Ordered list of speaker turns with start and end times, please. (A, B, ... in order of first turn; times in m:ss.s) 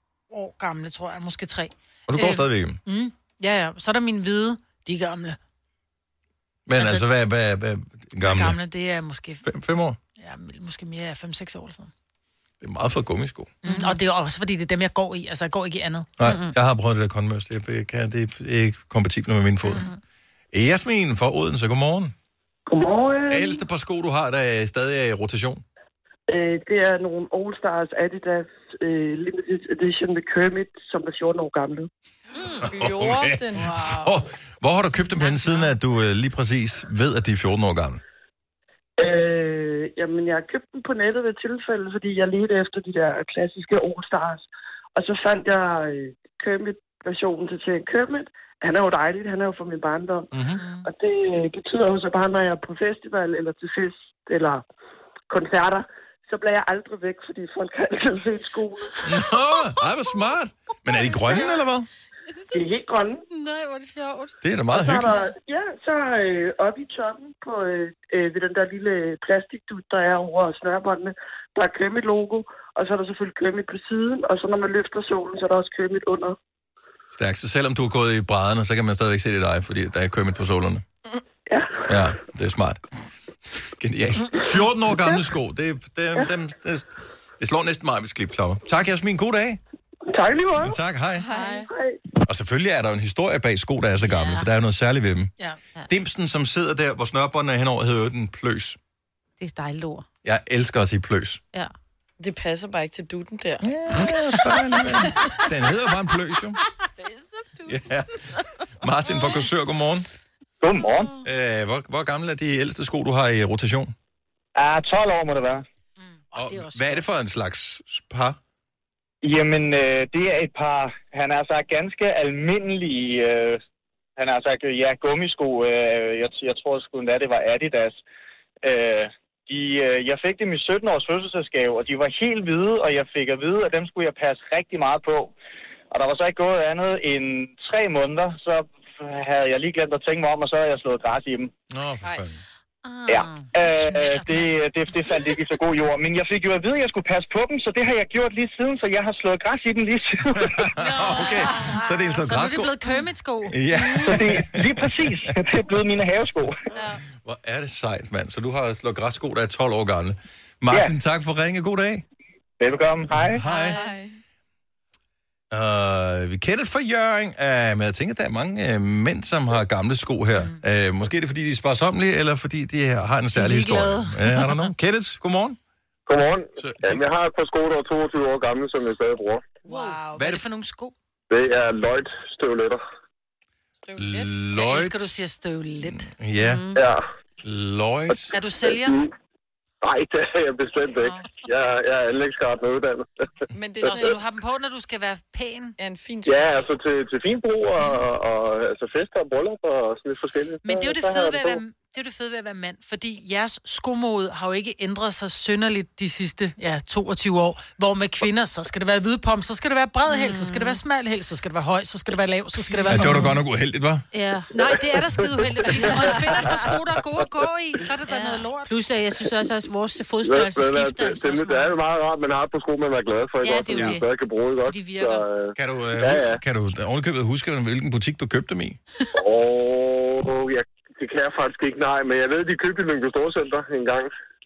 0:00.3-0:05.4 A
0:02.1-0:02.8 B
0:06.7-0:08.6 B
0:06.8-0:07.0 A
0:08.2-0:09.4 A
0:09.4-0:10.0 B
0:10.2-0:11.9 A
0:12.6-0:13.5 B
0:13.6-0:14.0 C
0:13.6-0:16.1 A
0:16.2-0:19.9 B
0:16.2-0:16.5 C
0:20.5-0:22.1 B
0:22.7-0:23.6 D
0:23.3-0:25.6 B
0:26.3-0:31.9 D
0:32.5-0:34.2 E
0:32.7-0:38.0 B
0:39.0-0:44.4 D
0:45.0-0:50.3 D
0:50.3-0:50.6 B
0:50.6-0:50.9 A
0:50.8-0:54.6 D
0:55.3-0:59.0 D
0:59.0-1:01.9 B
1:01.1-1:01.6 C
1:02.5-1:03.2 D
1:03.3-1:04.3 C
1:04.4-1:05.1 B
1:04.7-1:16.4 D
1:17.1-1:20.8 B
1:21.5-1:21.9 D
1:21.9-1:22.8 B
1:23.6-1:26.9 B
1:27.4-1:29.6 B
1:30.1-1:30.8 D
1:30.6-1:31.3 B
1:31.2-1:31.6 E
1:31.3-1:31.6 C
1:31.4-1:32.0 D
1:32.2-1:35.3 B
1:34.0-1:34.5 C
1:35.9-1:38.8 B
1:39.4-1:40.0 C
1:40.2-1:41.4 B
1:42.2-1:43.6 E
1:43.6-1:46.6 B
1:47.0-1:47.7 C
1:47.7-1:50.1 B
1:50.6-1:51.1 F
1:51.2-1:53.9 B
1:54.6-1:55.6 F
1:56.2-1:57.0 A
1:56.3-1:58.4 B
1:59.2-2:03.6 F
2:04.2-2:08.0 F
2:08.6-2:15.3 F
2:15.9-2:21.5 F
2:21.7-2:22.4 B
2:22.8-2:23.5 C
2:23.1-2:30.7 F
2:30.3-2:32.7 B
2:30.8-2:31.8 C
2:31.5-2:34.0 A
2:33.4-2:35.4 B
2:34.0-2:36.6 F
2:37.1-2:42.0 B
2:42.6-2:43.4 F
2:43.3-2:43.8 B
2:43.4-2:44.0 C
2:43.6-2:44.1 E
2:45.5-2:55.6 B
2:53.4-2:54.6 A
2:56.1-2:59.4 G
2:56.6-2:57.0 B
2:59.6-3:00.9 A
3:00.2-3:00.4 B
3:01.3-3:02.8 G
3:03.8-3:04.3 E
3:04.0-3:05.2 B
3:04.5-3:06.1 A
3:06.1-3:06.6 B
3:06.4-3:06.8 C
3:06.7-3:07.0 G
3:07.4-3:08.3 B
3:08.3-3:09.0 A
3:08.7-3:09.1 G
3:09.8-3:13.1 G
3:10.9-3:11.3 A
3:13.5-3:14.2 E
3:13.8-3:15.8 A
3:15.8-3:16.6 E
3:16.2-3:21.6 G
3:20.6-3:33.4 A
3:30.1-3:30.8 C
3:32.7-3:33.3 C
3:32.9-3:34.0 B
3:34.1-3:34.5 C
3:34.5-3:38.7 A
3:35.8-3:36.2 C
3:38.1-3:41.8 C
3:40.2-3:46.4 G
3:43.4-3:44.1 C
3:44.6-3:45.2 C
3:45.6-3:48.8 B
3:49.1-3:54.1 G